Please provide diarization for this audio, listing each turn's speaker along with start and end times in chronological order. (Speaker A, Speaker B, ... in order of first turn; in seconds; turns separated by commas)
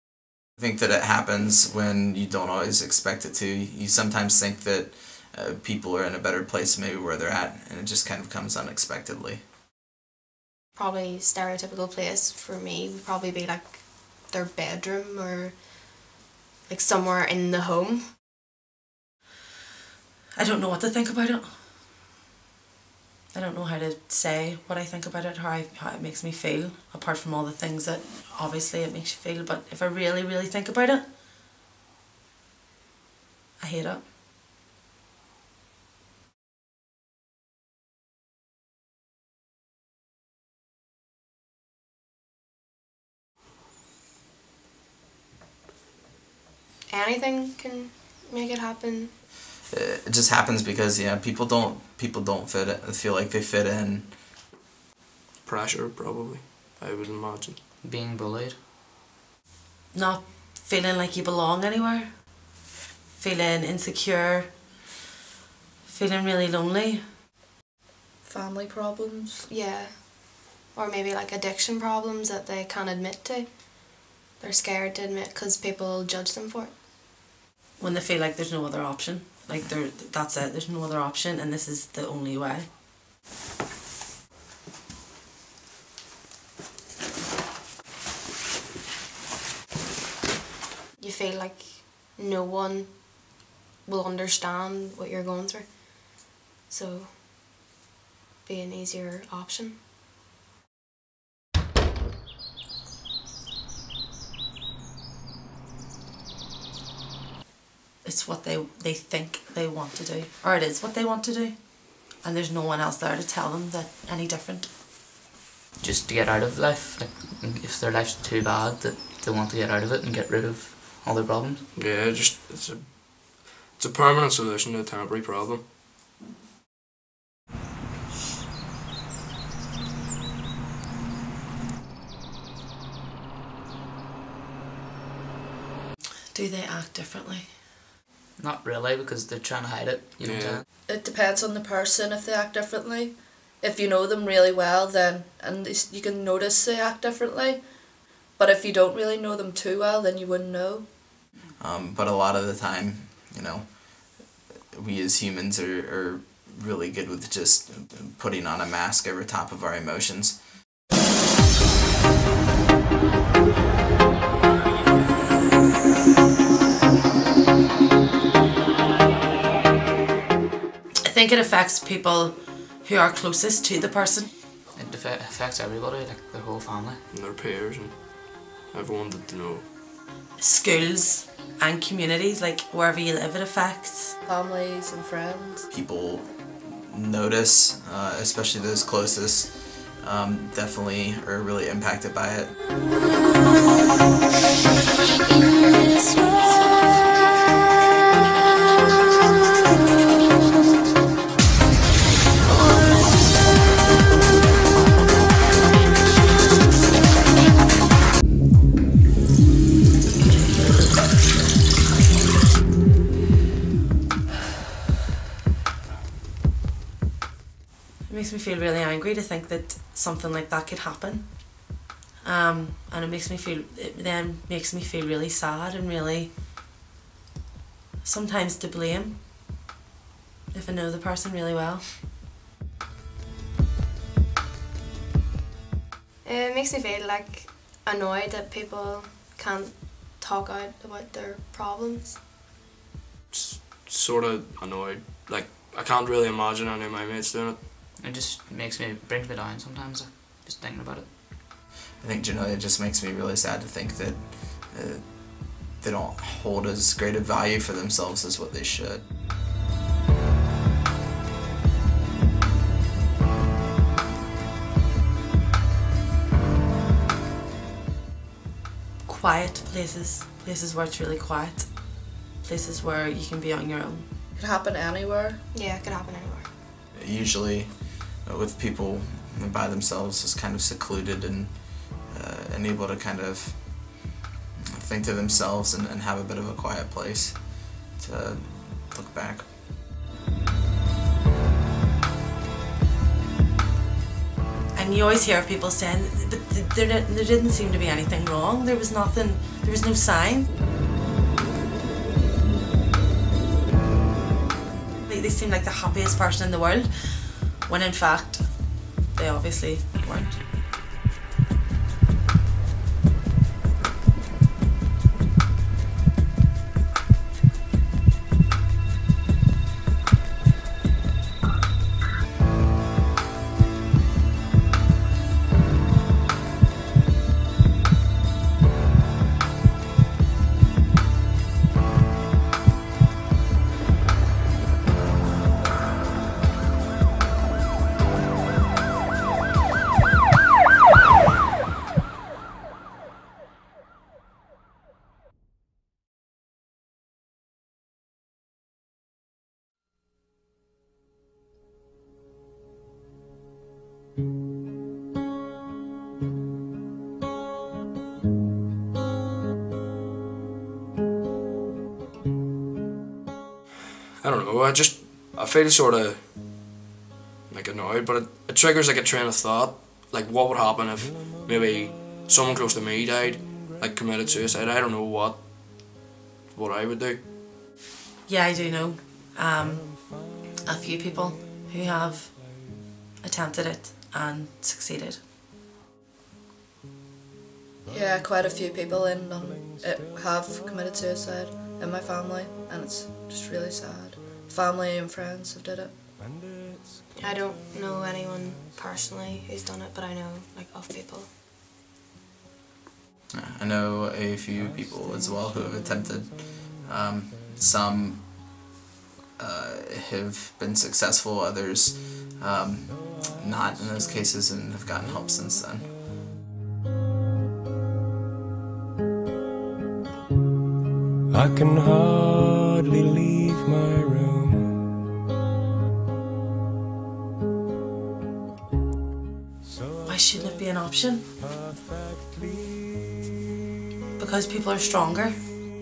Speaker A: 0.6-9.4, Speaker B: 10.7-16.0, Speaker B: 16.7-18.1, Speaker C: 20.4-21.7, Speaker C: 23.3-31.1, Speaker C: 33.6-34.0, Speaker B: 46.9-49.1, Speaker A: 49.7-54.2, Speaker D: 55.4-57.6, Speaker E: 57.8-58.6, Speaker C: 59.9-62.5, Speaker C: 63.1-64.8, Speaker C: 65.8-67.0, Speaker F: 68.2-69.4, Speaker B: 69.5-76.7, Speaker C: 77.8-82.7, Speaker B: 91.0-97.2, Speaker B: 98.4-99.8, Speaker C: 108.0-114.7, Speaker E: 115.8-121.6, Speaker D: 121.7-125.6, Speaker C: 136.3-137.6, Speaker E: 138.4-140.6, Speaker D: 140.2-140.6, Speaker F: 140.9-151.2, Speaker A: 151.6-160.4, Speaker C: 171.0-174.3, Speaker E: 174.7-177.0, Speaker D: 177.1-179.6, Speaker C: 180.4-184.2, Speaker F: 184.2-185.6, Speaker A: 185.7-192.6, Speaker C: 218.0-226.3, Speaker C: 228.0-229.2, Speaker C: 230.5-232.0, Speaker B: 236.2-242.2, Speaker D: 243.3-247.6, Speaker E: 248.0-251.1, Speaker A: 252.0-259.0, Speaker C: 269.0-274.1, Speaker F: 274.4-275.4, Speaker B: 275.5-276.5, Speaker A: 276.9-289.5, Speaker C: 294.7-300.5, Speaker C: 305.0-310.4, Speaker D: 364.2-366.2, Speaker D: 367.5-375.4, Speaker D: 376.5-377.2, Speaker C: 378.2-385.2, Speaker F: 387.9-395.9, Speaker B: 397.2-401.3, Speaker A: 403.3-408.5, Speaker A: 409.4-415.9, Speaker G: 421.3-424.8, Speaker C: 430.1-431.3, Speaker G: 432.1-432.7, Speaker C: 434.2-435.4